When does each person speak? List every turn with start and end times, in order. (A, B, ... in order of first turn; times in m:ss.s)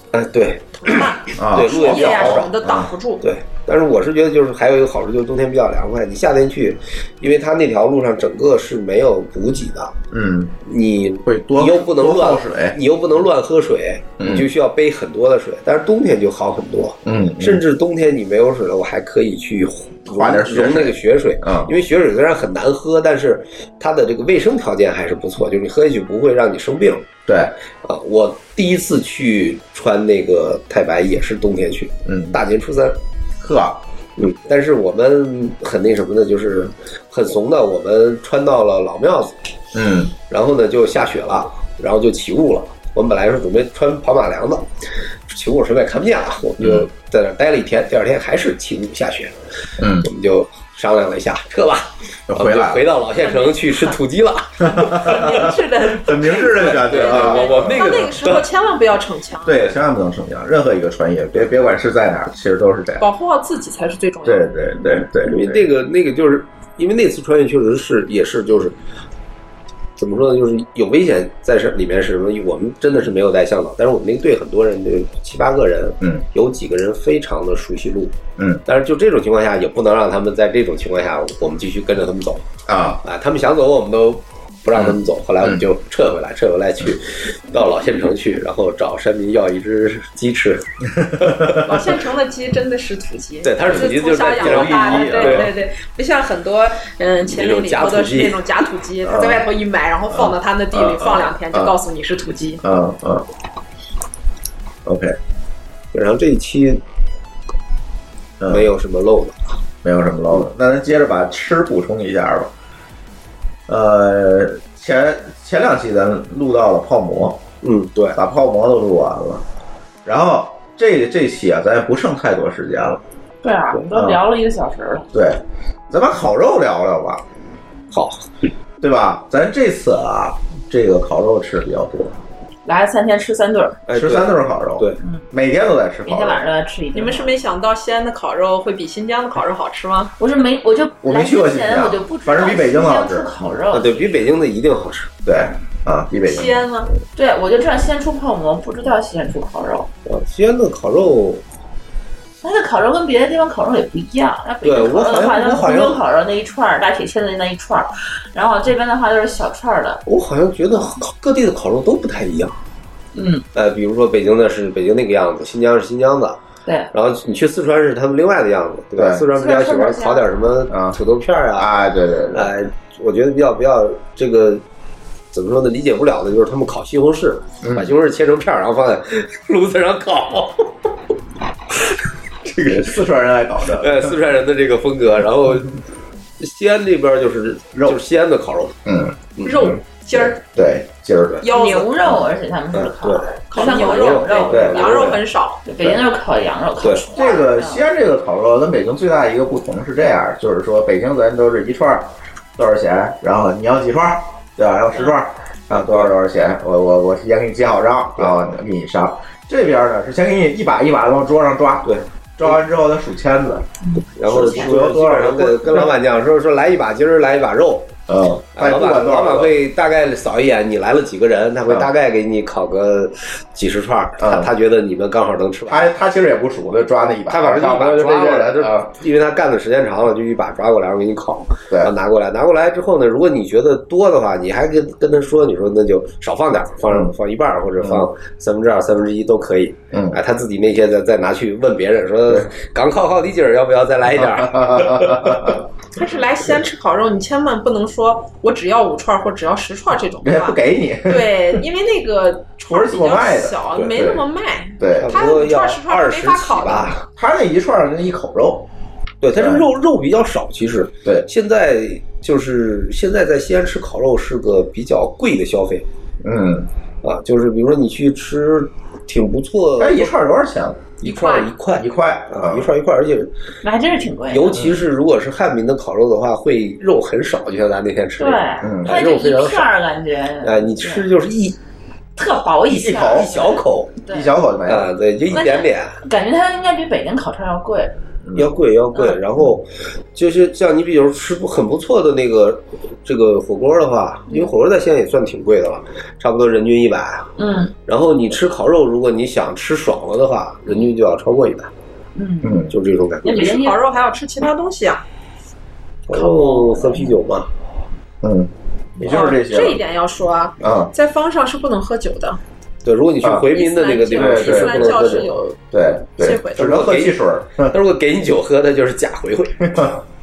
0:00.1-0:02.5 A
0:00.8-0:03.2 B
0:01.4-0:02.9 C
0:03.2-0:09.9 A
0:10.1-0:10.6 C
0:10.6-0:27.1 A
0:11.2-0:12.8 C
0:14.2-0:14.5 C
0:17.0-0:17.6 C
0:20.1-0:21.7 C
0:27.3-0:27.5 C
0:27.8-0:33.0 A
0:32.0-0:32.4 C
0:33.4-0:33.8 C
0:34.2-0:39.3 A
0:39.7-0:40.1 C
0:40.3-0:44.7 A
0:45.3-0:49.3 A
0:46.6-0:46.9 C
0:49.8-0:50.1 C
0:50.0-0:55.5 A
0:52.3-0:52.9 C
0:53.2-0:54.0 B
0:54.6-0:58.1 C
0:54.9-0:59.7 B
0:56.5-0:58.4 A
0:59.4-1:03.0 C
1:03.0-1:04.5 B
1:04.2-1:05.6 C
1:05.2-1:08.8 A
1:10.0-1:18.1 A
1:18.4-1:18.6 C
1:18.6-1:22.4 A
1:22.6-1:23.0 C
1:23.0-1:31.7 A
1:24.7-1:25.6 C
1:31.0-1:31.6 C
1:31.6-1:42.6 B
1:33.4-1:35.5 A
1:34.3-1:35.5 C
1:37.2-1:38.4 A
1:39.0-1:39.4 C
1:40.1-1:41.7 C
1:42.6-1:43.2 C
1:44.8-1:45.2 C
1:45.9-1:46.8 A
1:48.4-1:48.7 C
1:48.5-1:49.6 A
1:49.8-1:52.5 C
1:53.7-1:57.4 C
1:57.6-1:58.2 A
1:58.1-1:59.4 C
2:00.0-2:03.0 C
2:03.4-2:05.1 D
2:03.9-2:04.2 C
2:05.1-2:07.2 C
2:07.9-2:08.2 A
2:08.8-2:12.2 C
2:12.6-2:13.8 D
2:13.9-2:15.0 A
2:13.9-2:16.4 C
2:16.0-2:17.3 D
2:16.9-2:20.1 B
2:20.2-2:24.2 D
2:21.0-2:23.3 C
2:23.7-2:25.1 A
2:25.2-2:27.0 C
2:26.2-2:26.9 B
2:27.1-2:29.9 D
2:30.0-2:31.4 A
2:32.4-2:40.0 D
2:34.6-2:36.0 A
2:40.0-2:42.6 A
2:43.1-2:43.4 D
2:43.5-2:46.4 A
2:46.6-2:46.9 D
2:46.9-2:51.7 A
2:49.0-2:49.2 C
2:49.3-2:50.3 D
2:50.7-2:51.0 C
2:51.6-2:52.5 C
2:52.3-2:54.6 A
2:55.3-3:00.7 A
2:57.6-2:57.9 C
3:02.5-3:04.2 C
3:02.7-3:02.9 A
3:03.8-3:05.8 A
3:06.4-3:08.8 A
3:07.7-3:08.0 C
3:08.8-3:11.4 C
3:09.4-3:09.7 A
3:09.4-3:10.4 B
3:11.4-3:11.9 B
3:11.5-3:15.1 D
3:12.7-3:15.2 A
3:13.5-3:15.6 B
3:15.6-3:17.8 D
3:17.1-3:33.6 C
3:25.7-3:26.1 A
3:31.8-3:32.5 A
3:33.9-3:34.5 D
3:34.2-3:37.9 A
3:34.2-3:36.0 C
3:38.1-3:39.5 C
3:38.6-3:45.8 A
3:44.2-3:44.5 C
3:45.7-3:48.9 C
3:47.3-4:05.6 A
3:57.8-3:58.1 C
3:59.9-4:00.2 C
4:04.1-4:05.6 C
4:06.0-4:16.9 B
4:10.2-4:11.6 C
4:12.7-4:14.2 C
4:14.8-4:15.2 C
4:15.0-4:17.0 A
4:17.1-4:18.7 C
4:19.2-4:25.8 A
4:19.3-4:19.6 C
4:26.2-4:26.7 C
4:27.0-4:30.1 A
4:29.8-4:30.9 C
4:31.0-4:33.3 A
4:31.0-4:31.5 B
4:31.8-4:32.7 C
4:33.6-4:34.6 D
4:34.3-4:39.7 A
4:34.5-4:34.8 C
4:38.2-4:41.1 D
4:38.6-4:39.0 C
4:40.4-4:41.6 A
4:42.1-4:44.3 D
4:42.7-4:43.3 C
4:42.9-4:43.9 A
4:44.1-4:45.4 C
4:44.7-4:45.9 A
4:45.3-4:47.9 D
4:48.2-4:48.5 C
4:48.3-4:57.3 A
4:48.9-4:49.2 D
4:57.4-4:57.7 D
4:57.8-5:01.7 A
5:02.2-5:02.6 D
5:02.4-5:02.7 C
5:02.7-5:03.5 A
5:03.2-5:03.8 D
5:03.2-5:05.0 B
5:06.1-5:07.5 A
5:06.1-5:07.2 D
5:08.2-5:09.8 C
5:09.0-5:12.4 B
5:10.6-5:10.9 C
5:12.8-5:15.3 A
5:13.2-5:13.5 C
5:13.5-5:15.6 B
5:14.1-5:17.7 C
5:16.2-5:16.8 B
5:16.6-5:20.0 A
5:19.6-5:19.9 C